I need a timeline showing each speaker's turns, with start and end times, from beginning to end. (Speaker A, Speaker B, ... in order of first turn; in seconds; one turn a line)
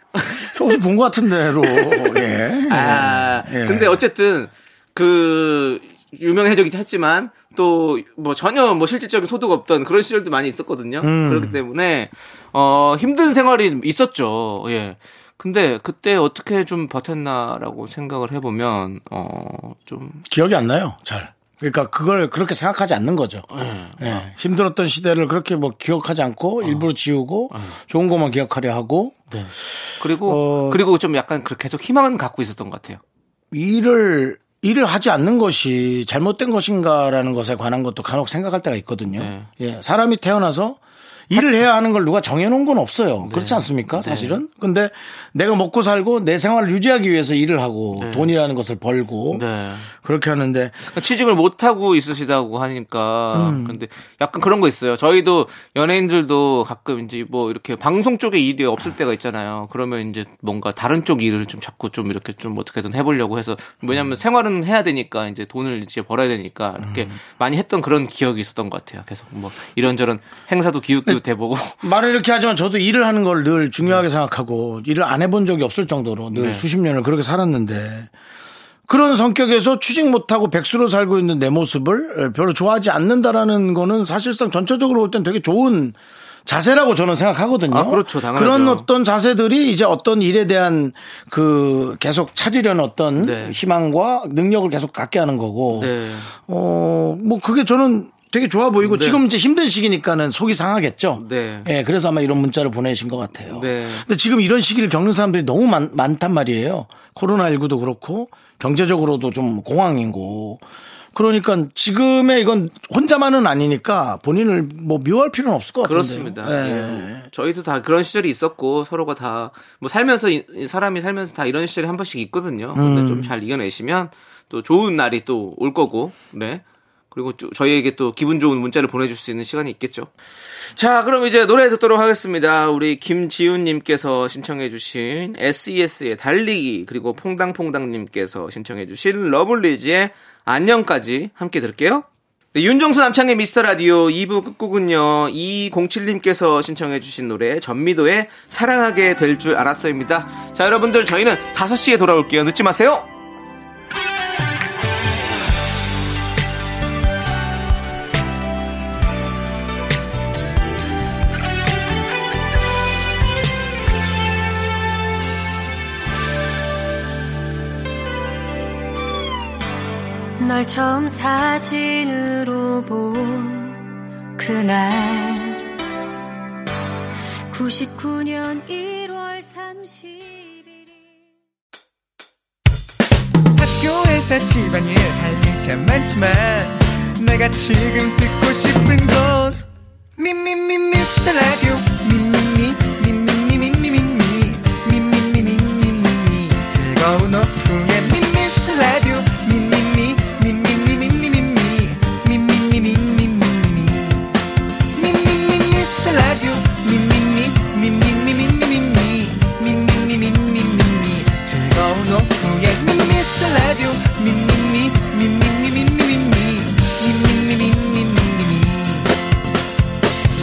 Speaker A: 0.2-0.5
Speaker B: 0.4-4.0
Speaker A: 2.7-20.2
Speaker B: 11.0-11.6
Speaker B: 20.3-23.5
Speaker A: 23.5-24.3
Speaker B: 24.0-29.2
Speaker A: 27.5-27.8
Speaker A: 29.3-33.0
Speaker B: 30.2-30.8
Speaker B: 33.5-40.8
Speaker A: 39.1-39.5
Speaker B: 41.3-50.9
Speaker A: 43.2-44.4
Speaker A: 48.0-48.3
Speaker A: 49.3-49.9
Speaker A: 50.9-71.9
Speaker B: 53.3-53.8
Speaker B: 66.8-67.2
Speaker B: 71.8-78.1
Speaker A: 76.3-76.7
Speaker B: 78.9-117.3
Speaker A: 87.7-88.9
Speaker A: 93.2-93.6
Speaker A: 95.7-96.3
Speaker A: 98.8-99.2
Speaker A: 101.2-101.7
Speaker A: 103.5-104.1
Speaker A: 115.8-153.1
Speaker B: 122.7-123.3
Speaker C: 170.4-173.8
Speaker C: 174.4-175.6
Speaker C: 177.5-180.9
Speaker D: 183.6-189.6
Speaker D: 190.2-204.3
Speaker D: 204.9-219.1